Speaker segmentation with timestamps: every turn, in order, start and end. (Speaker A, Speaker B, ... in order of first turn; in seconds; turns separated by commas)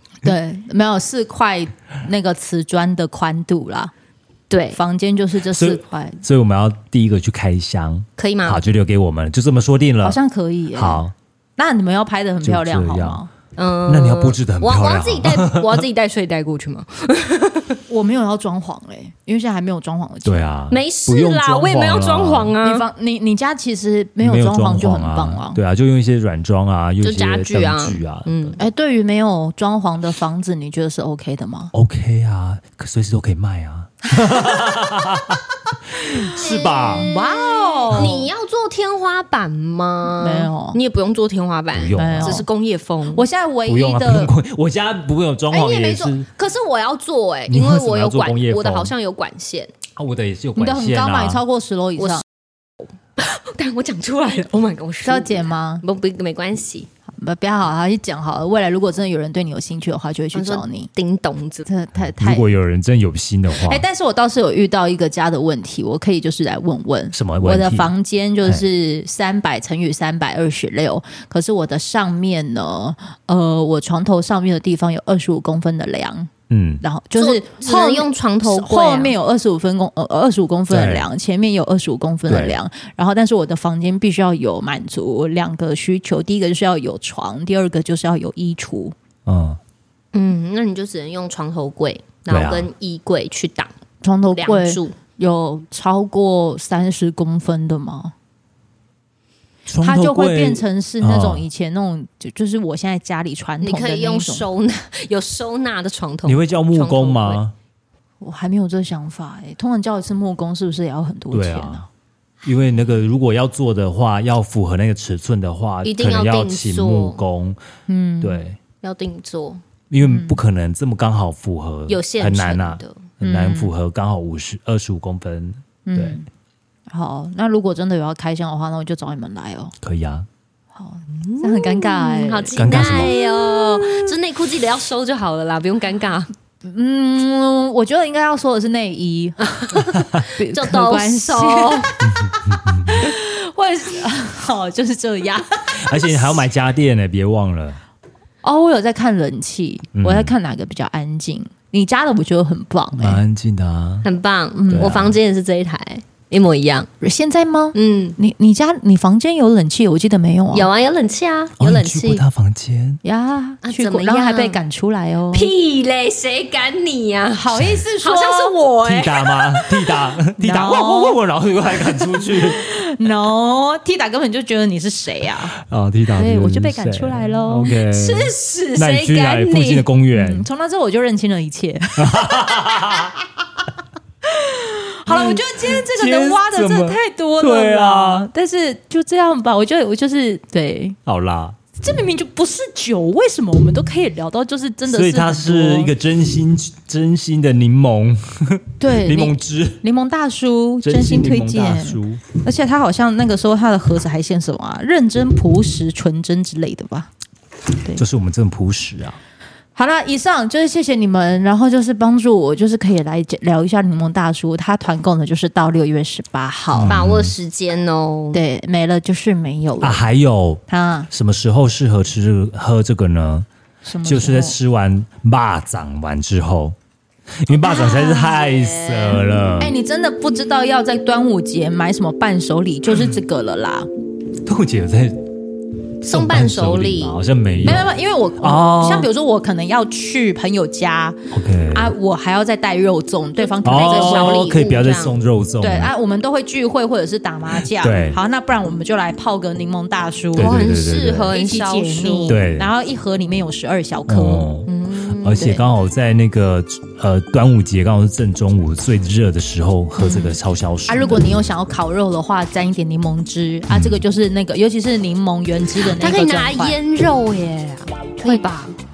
Speaker A: 0.2-3.9, Speaker B: 4.5-4.8, Speaker A: 4.7-6.2, Speaker C: 5.5-10.2, Speaker B: 8.2-8.6, Speaker A: 10.0-11.0, Speaker C: 10.7-11.1, Speaker A: 11.6-13.3, Speaker C: 12.4-13.2, Speaker B: 13.6-17.8, Speaker C: 13.9-15.8, Speaker A: 17.9-20.5, Speaker C: 20.2-22.6, Speaker B: 20.7-22.9, Speaker A: 22.6-25.6, Speaker C: 24.2-28.6, Speaker B: 27.0-28.6, Speaker A: 28.6-31.7, Speaker C: 31.7-35.4, Speaker A: 34.4-35.3, Speaker C: 35.9-37.1, Speaker A: 36.0-38.2, Speaker B: 36.3-43.2, Speaker C: 37.9-38.2, Speaker A: 40.2-40.8, Speaker C: 41.7-42.5, Speaker A: 42.0-42.5, Speaker A: 43.1-44.3, Speaker C: 43.6-46.3, Speaker B: 45.5-49.7, Speaker C: 47.5-48.9, Speaker C: 50.0-51.4, Speaker A: 50.5-52.2, Speaker B: 52.0-52.2, Speaker B: 53.1-56.9, Speaker A: 55.0-55.8, Speaker A: 57.1-60.9, Speaker B: 60.3-61.7, Speaker A: 61.6-62.5, Speaker C: 62.0-63.8, Speaker A: 63.6-76.3, Speaker C: 67.1-67.9, Speaker C: 76.5-76.8, Speaker A: 76.8-88.9, Speaker B: 77.2-79.1, Speaker C: 80.7-81.1, Speaker C: 82.3-82.6, Speaker C: 89.2-89.6, Speaker B: 90.1-93.7, Speaker C: 92.3-92.7, Speaker A: 94.0-98.1, Speaker B: 94.3-94.9, Speaker C: 99.7-101.4, Speaker A: 99.8-104.5, Speaker B: 103.6-107.4, Speaker C: 106.2-107.5, Speaker A: 108.2-111.9, Speaker C: 111.3-111.8, Speaker C: 112.4-117.6, Speaker B: 115.8-117.2, Speaker A: 117.9-118.5, Speaker C: 118.2-118.6, Speaker B: 118.8-119.6, Speaker C: 119.9-126.2, Speaker A: 120.0-120.4, Speaker B: 121.9-123.0, Speaker A: 123.2-123.7, Speaker A: 125.8-126.3, Speaker A: 126.9-129.7, Speaker C: 129.8-130.3, Speaker A: 130.7-134.0, Speaker B: 131.3-136.3, Speaker C: 132.6-133.1, Speaker A: 136.6-146.4, Speaker B: 139.4-141.9, Speaker C: 142.0-143.1, Speaker C: 145.8-147.8, Speaker A: 148.4-153.2, Speaker C: 149.9-150.3, Speaker C: 153.0-154.1, Speaker B: 154.0-156.9, Speaker A: 154.5-155.0, Speaker C: 154.7-155.2, Speaker A: 157.0-160.7, Speaker B: 157.7-158.2, Speaker B: 160.5-162.2, Speaker C: 161.6-163.0, Speaker A: 163.0-165.5, Speaker B: 163.6-164.6, Speaker B: 165.3-170.0, Speaker A: 167.3-168.6, Speaker C: 168.8-172.6, Speaker A: 170.4-171.2, Speaker A: 172.0-175.5, Speaker C: 175.5-180.5, Speaker A: 176.1-177.7, Speaker B: 177.9-179.9, Speaker A: 180.1-183.2, Speaker C: 182.0-183.1, Speaker A: 184.2-191.0, Speaker C: 185.1-188.3, Speaker C: 191.1-191.6, Speaker A: 191.8-195.9, Speaker C: 194.9-199.8, Speaker A: 198.8-207.1, Speaker C: 200.8-202.2, Speaker C: 207.9-209.2, Speaker A: 209.8-217.0, Speaker C: 216.7-217.3, Speaker B: 216.8-218.4, Speaker A: 218.3-220.0, Speaker C: 219.8-223.5, Speaker A: 220.7-221.1, Speaker A: 223.8-224.6, Speaker C: 224.0-226.8, Speaker C: 227.4-229.7, Speaker A: 227.5-228.4, Speaker B: 228.4-229.2, Speaker A: 229.6-233.9, Speaker C: 234.4-235.2, Speaker B: 236.0-237.2, Speaker C: 236.0-237.9, Speaker A: 237.6-241.2, Speaker C: 238.4-239.1, Speaker C: 241.3-241.9, Speaker A: 241.7-244.6, Speaker B: 243.6-245.2, Speaker C: 243.6-245.9, Speaker A: 245.6-250.7, Speaker C: 247.7-248.2, Speaker C: 250.3-251.3, Speaker B: 250.4-252.4, Speaker A: 251.3-254.5, Speaker C: 252.3-252.7, Speaker C: 254.1-254.7, Speaker B: 254.7-255.5, Speaker C: 255.2-261.3, Speaker A: 255.4-255.6, Speaker A: 260.9-266.8, Speaker C: 263.7-264.0, Speaker B: 265.8-268.8